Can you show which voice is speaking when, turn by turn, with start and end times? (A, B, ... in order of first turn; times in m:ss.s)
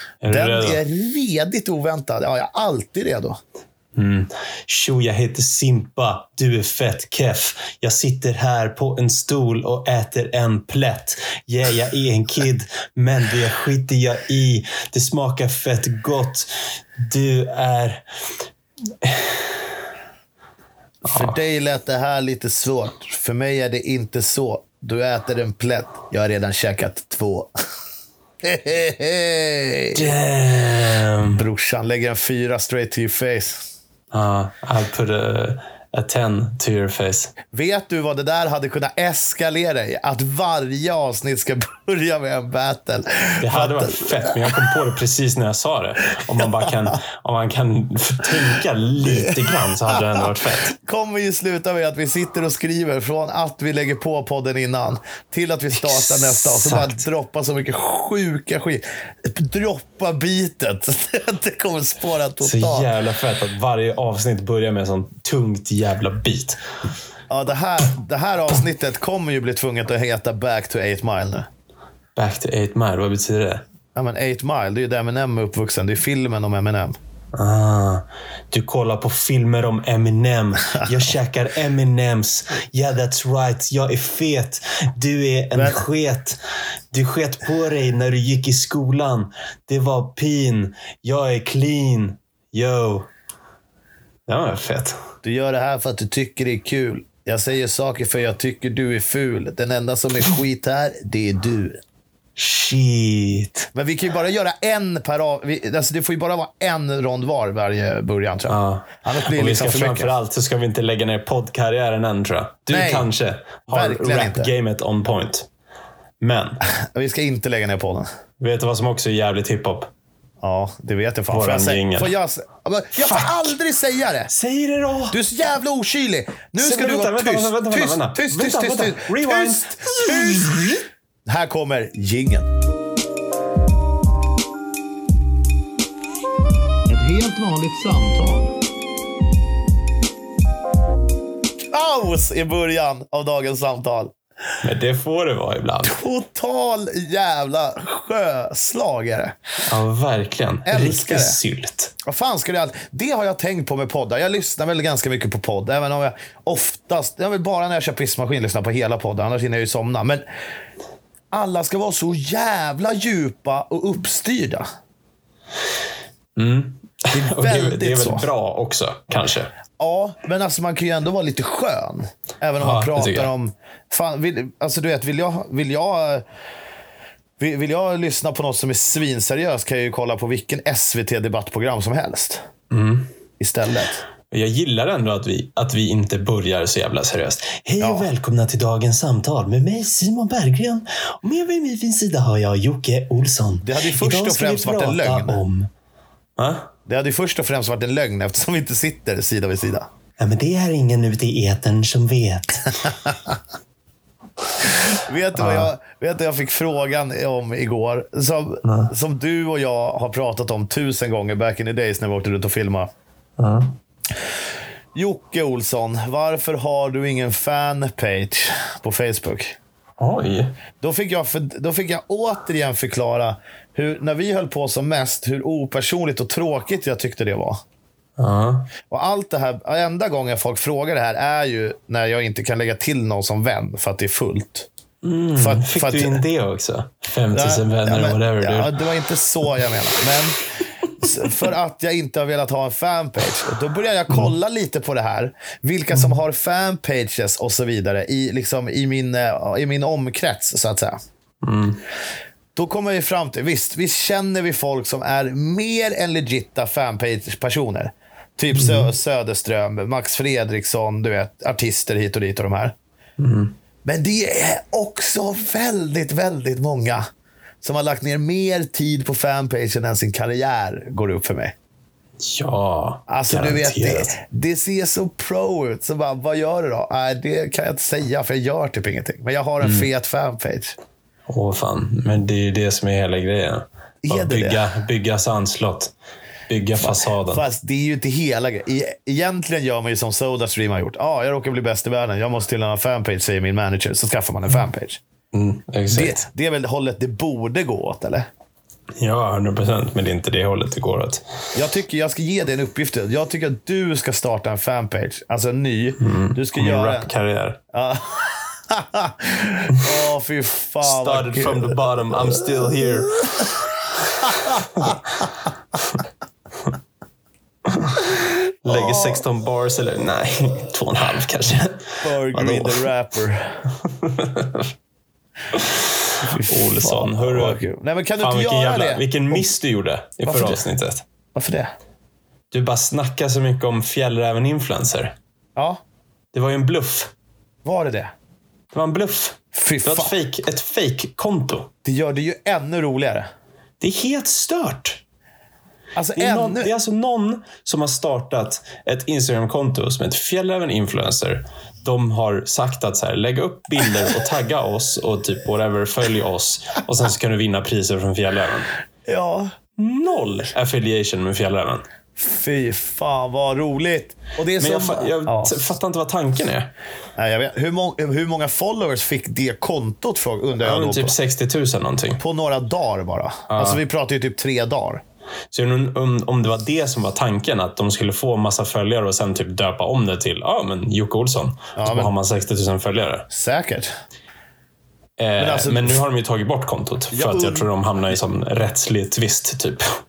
0:00.2-0:00.8 A
0:00.3-0:03.4 B
0:04.0-0:18.0 A
0:19.0-0:19.5 A
0:21.0-0:21.4 A
0:21.1-0:27.5 B
0:28.4-0:30.0 B
0:29.9-0:31.4 A
0:31.3-0:33.6 B
0:34.1-0:37.3 A
0:37.5-0:44.7 B
0:43.4-0:50.7 A
0:46.4-0:46.9 B
0:49.0-1:02.9 B
0:55.8-0:57.0 A
1:02.4-1:06.6 A
1:07.3-1:11.5 B
1:12.2-1:13.6 A
1:13.9-1:17.0 B
1:17.3-1:26.4 A
1:25.5-1:25.8 B
1:26.9-1:33.1 A
1:34.3-1:35.0 A
1:35.2-1:41.8 B
1:42.4-1:43.7 A
1:43.7-1:50.1 B
1:48.5-1:55.5 A
1:52.7-1:53.1 B
1:53.7-1:54.5 B
1:56.2-1:56.6 A
1:56.8-1:58.1 B
1:58.4-1:59.9 A
2:00.4-2:04.3 B
2:01.3-2:02.1 A
2:03.0-2:03.4 A
2:04.3-2:05.2 A
2:05.1-2:10.5 B
2:06.6-2:10.8 A
2:11.2-2:12.5 B
2:16.9-2:18.5 B
2:21.7-2:24.1 B
2:24.6-2:26.0 A
2:25.8-2:29.3 B
2:29.6-2:31.9 A
2:30.7-2:31.4 B
2:32.0-2:40.2 B
2:41.3-2:44.6 B
2:46.4-2:49.5 A
2:47.1-2:48.3 B
2:49.8-2:56.2 B
2:52.6-2:53.3 A
2:57.4-3:02.4 B
3:02.7-3:03.1 A
3:03.4-3:04.0 B
3:04.3-3:15.7 A
3:07.8-3:08.1 B
3:13.6-3:15.4 B
3:16.4-3:16.7 A
3:16.8-3:19.9 B
3:20.2-3:22.7 A
3:24.8-3:32.9 B
3:25.4-3:25.7 A
3:28.6-3:28.9 A
3:33.4-3:33.8 A
3:34.9-3:39.6 B
3:40.0-3:40.5 A
3:40.8-3:47.6 B
3:48.2-3:48.7 A
3:48.9-3:54.7 B
3:55.0-3:58.8 A
3:55.4-3:56.2 B
3:57.3-4:00.4 B
4:01.0-4:11.0 B
4:11.4-4:11.8 A
4:12.6-4:22.7 B
4:18.5-4:18.9 A
4:23.2-4:23.6 A
4:23.8-4:27.0 B
4:27.6-4:31.6 B
4:32.2-4:34.1 A
4:33.1-4:40.8 B
4:39.6-4:39.9 A
4:41.3-4:45.9 A
4:44.0-4:44.6 B
4:46.5-4:47.4 A
4:46.8-4:55.0 B
4:55.3-4:56.2 A
4:55.9-4:58.3 B
4:59.0-5:01.2 A
5:01.6-5:07.1 B
5:06.0-5:07.6 A
5:07.7-5:12.9 B
5:10.8-5:15.2 A
5:14.2-5:15.0 B
5:17.6-5:22.9 A
5:18.7-5:19.2 B
5:22.0-5:23.6 B
5:23.8-5:24.7 A
5:25.5-5:27.6 A
5:26.2-5:29.5 B
5:28.2-5:31.0 A
5:30.2-5:30.6 B
5:31.4-5:31.7 B
5:32.5-5:35.1 A
5:35.6-5:35.8 B
5:36.3-5:37.1 A
5:37.6-5:38.1 B
5:38.7-5:41.7 A
5:39.5-5:40.1 B
5:41.8-5:43.2 B
5:43.8-5:45.0 A
5:46.0-5:46.7 B
5:46.2-5:58.7 A
5:59.1-5:59.5 B
5:59.8-6:01.8 A
6:02.2-6:05.6 B
6:04.6-6:06.7 A
6:07.2-6:11.1 B
6:10.6-6:12.2 A
6:12.2-6:15.0 B
6:13.5-6:13.8 A
6:15.5-6:23.2 A
6:21.8-6:22.1 B
6:23.3-6:23.9 B
6:25.2-6:29.8 A
6:25.4-6:26.0 B
6:27.1-6:27.7 B